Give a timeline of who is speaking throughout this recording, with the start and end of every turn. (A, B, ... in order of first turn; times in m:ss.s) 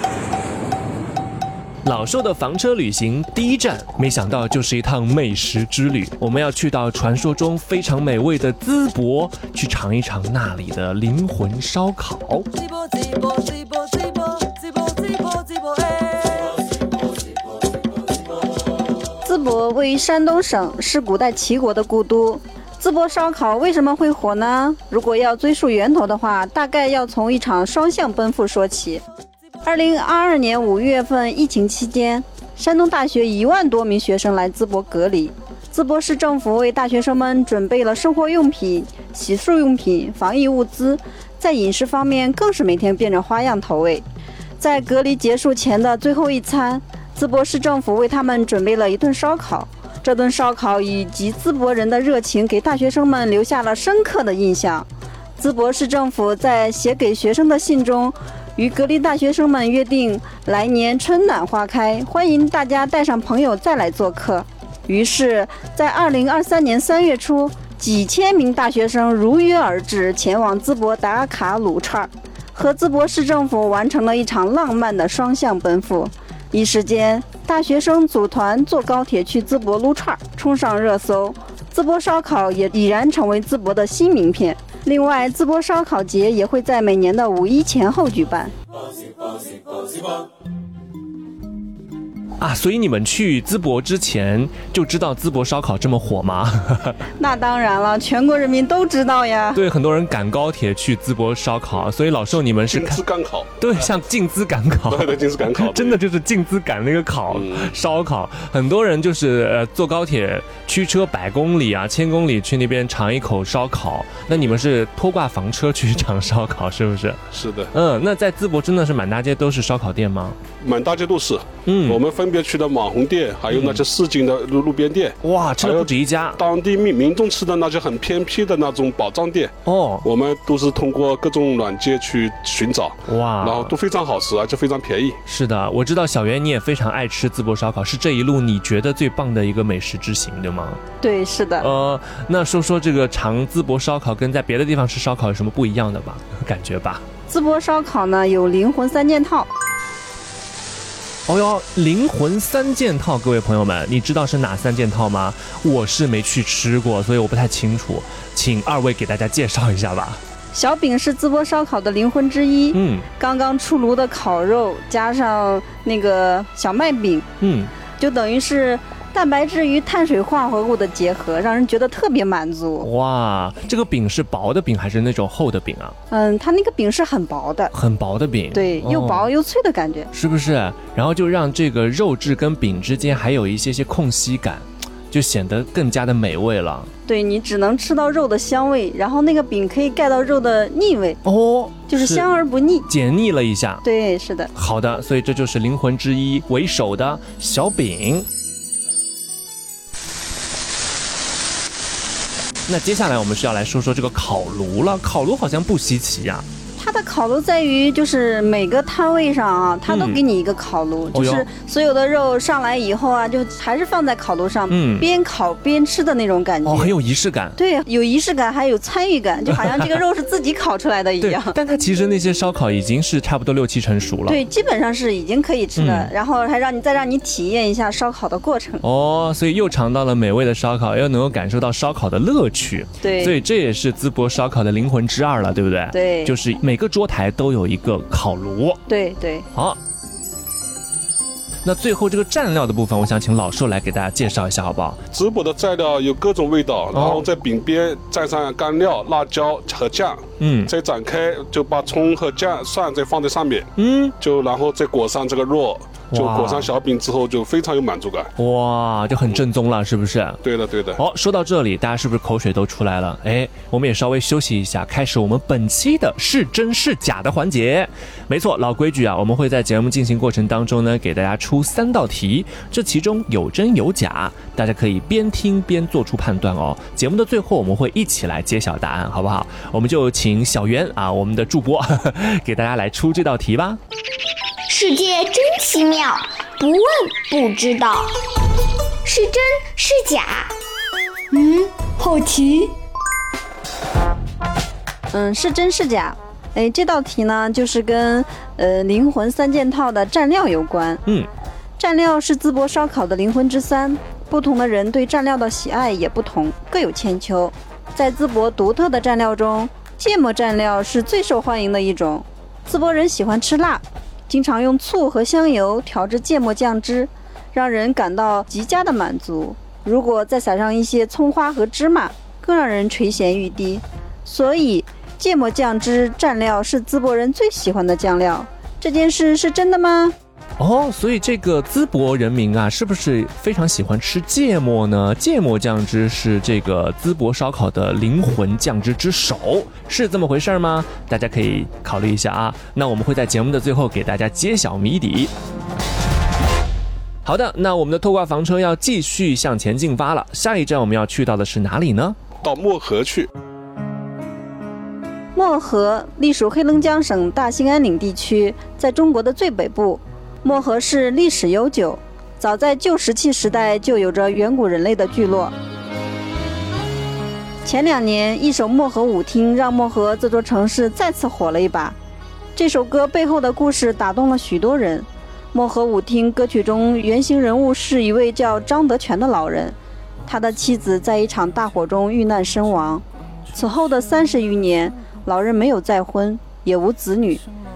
0:01.8-0:12.5 A
0:19.2-0:29.0 B
0:29.6-0:44.0 B
0:44.6-0:54.9 B
0:55.4-1:28.5 B
1:32.4-1:37.0 A
1:37.2-1:39.6 B
1:39.6-1:43.0 A
1:42.7-1:43.9 C
1:43.6-1:57.2 A
1:44.9-1:46.0 C
1:47.3-1:47.8 C
1:57.3-1:57.7 C
1:57.7-2:00.4 A
2:00.6-2:15.2 C
2:01.7-2:02.0 A
2:03.5-2:03.8 A
2:05.2-2:06.4 A
2:09.7-2:10.1 A
2:13.1-2:13.7 A
2:15.3-2:20.8 A
2:21.0-2:21.7 B
2:21.6-2:27.0 A
2:27.3-2:29.5 B
2:31.3-2:40.2 A
2:40.5-2:47.3 B
2:42.7-2:43.1 A
2:47.4-2:47.7 A
2:48.0-2:52.9 B
2:52.8-2:56.0 A
2:56.1-2:57.7 B
2:57.7-2:59.3 A
2:58.5-3:00.1 B
3:00.1-3:06.9 A
3:07.1-3:11.2 B
3:11.2-3:12.3 A
3:11.9-3:12.9 B
3:12.9-3:13.8 A
3:13.8-3:14.5 B
3:14.6-3:18.3 A
3:22.7-3:26.4 A
3:26.8-3:36.9 B
3:29.9-3:30.2 A
3:31.1-3:31.5 A
3:34.7-3:35.1 A
3:36.6-3:37.6 A
3:37.6-3:41.6 B
3:41.2-3:44.4 A
3:44.3-3:48.8 B
3:45.8-3:46.1 A
3:48.8-3:58.8 A
3:53.0-3:53.4 B
3:55.9-3:56.3 B
3:58.9-3:59.5 B
4:01.6-4:05.0 A
4:05.1-4:18.3 C
4:06.9-4:07.2 A
4:10.4-4:10.7 A
4:13.8-4:14.1 A
4:16.1-4:16.7 A
4:18.4-4:20.4 A
4:20.4-4:21.0 C
4:21.0-4:43.8 A
4:44.7-4:48.1 D
4:49.0-4:50.5 D
4:51.3-4:52.8 D
4:55.1-5:01.0 B
5:01.8-5:30.2 B
5:30.6-5:45.3 A
5:47.2-5:52.2 A
5:52.4-5:53.3 C
5:55.4-6:05.5 B
6:07.6-6:12.0 B
6:12.6-6:19.8 B
6:20.3-6:27.4 B